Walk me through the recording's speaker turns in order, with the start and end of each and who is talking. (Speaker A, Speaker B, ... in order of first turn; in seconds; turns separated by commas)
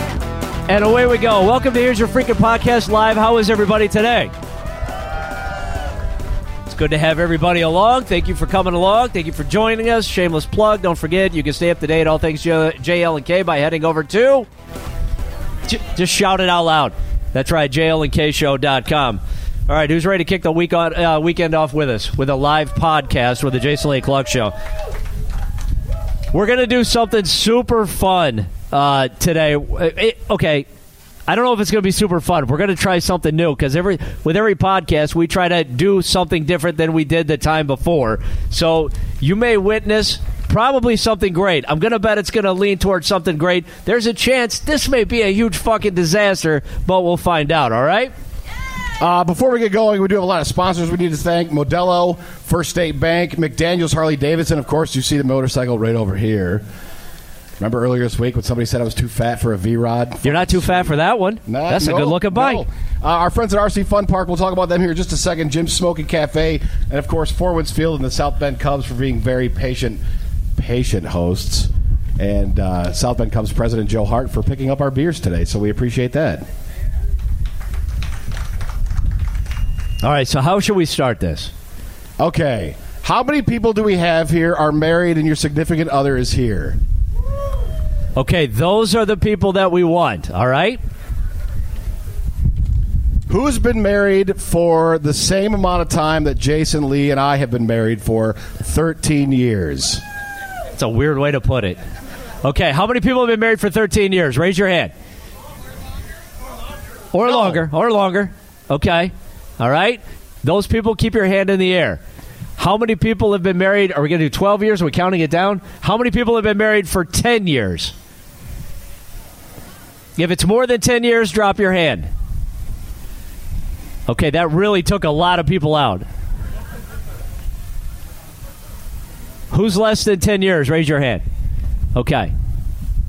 Speaker A: 0.7-4.3, Speaker A: 6.7-14.5, Speaker A: 15.7-24.5, Speaker A: 26.3-30.7, Speaker A: 31.3-48.1, Speaker B: 49.0-56.6, Speaker B: 57.6-70.0, Speaker A: 60.2-62.6, Speaker B: 70.5-76.5, Speaker A: 80.0-81.5, Speaker B: 82.2-86.8, Speaker A: 88.2-90.8, Speaker B: 93.3-100.0, Speaker A: 100.7-101.8, Speaker A: 102.4-104.9, Speaker A: 107.1-112.0, Speaker A: 112.6-117.9, Speaker A: 120.2-122.1, Speaker A: 124.1-126.0, Speaker A: 129.5-131.2, Speaker A: 131.9-132.3